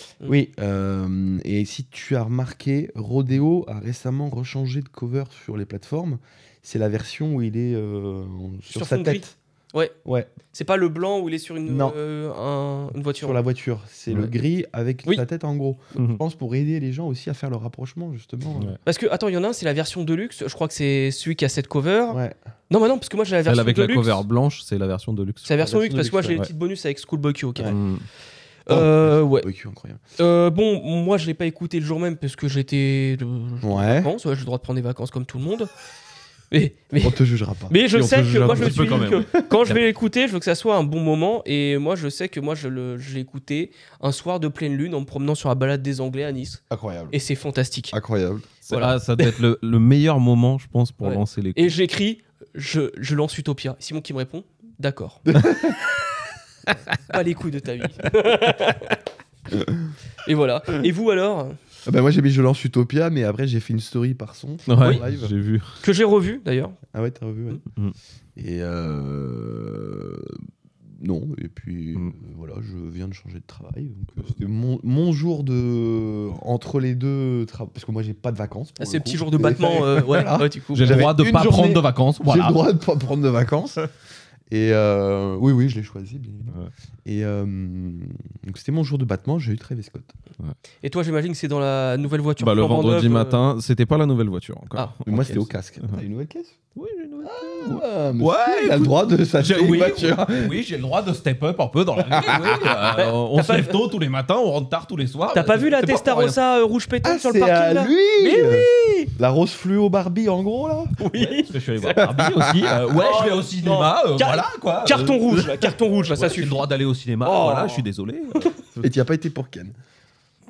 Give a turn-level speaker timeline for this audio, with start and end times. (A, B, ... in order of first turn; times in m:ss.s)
0:00.2-0:09.3 A
0:08.7-0:09.9 B
0:10.0-0:10.3 A
0:10.5-0:13.4 B
0:11.6-0:12.0 A
0:13.1-0:18.8 A
0:18.8-0:22.2 B
0:22.1-0:22.4 A
0:22.7-0:24.2 B
0:23.4-0:25.5 C
0:25.4-0:27.8 B
0:25.6-0:26.4 A
0:27.7-0:28.0 C
0:28.6-0:29.5 B
0:28.7-0:30.0 A
0:30.2-0:35.7 B
0:33.6-0:34.1 A
0:36.5-0:48.0 B
0:37.0-0:37.8 A
0:37.9-0:39.8 C
0:38.4-0:39.4 A
0:46.7-0:47.2 A
0:47.9-0:48.5 A
0:48.6-0:51.7 C
0:48.7-0:49.4 B
0:51.0-0:55.3 B
0:55.3-0:55.8 A
0:57.0-0:59.0 B
0:59.5-0:59.9 A
1:00.2-1:01.6 B
1:01.8-1:05.3 A
1:04.7-1:05.8 C
1:05.8-1:06.8 B
1:06.9-1:07.6 A
1:07.7-1:07.9 C
1:08.4-1:10.4 A
1:10.9-1:23.8 A
1:18.8-1:21.0 B
1:20.7-1:22.6 C
1:24.5-1:30.1 A
1:30.8-1:33.4 B
1:32.4-1:36.0 C
1:34.8-1:35.4 B
1:35.0-1:36.6 A
1:36.8-1:46.4 C
1:37.2-1:40.6 A
1:42.1-1:42.8 A
1:42.9-1:43.8 B
1:45.3-1:49.1 B
1:47.0-1:51.0 A
1:51.0-1:52.2 B
1:51.2-1:58.9 C
1:52.0-1:52.8 A
1:52.8-1:56.6 B
1:57.2-1:57.8 B
1:58.8-1:59.8 A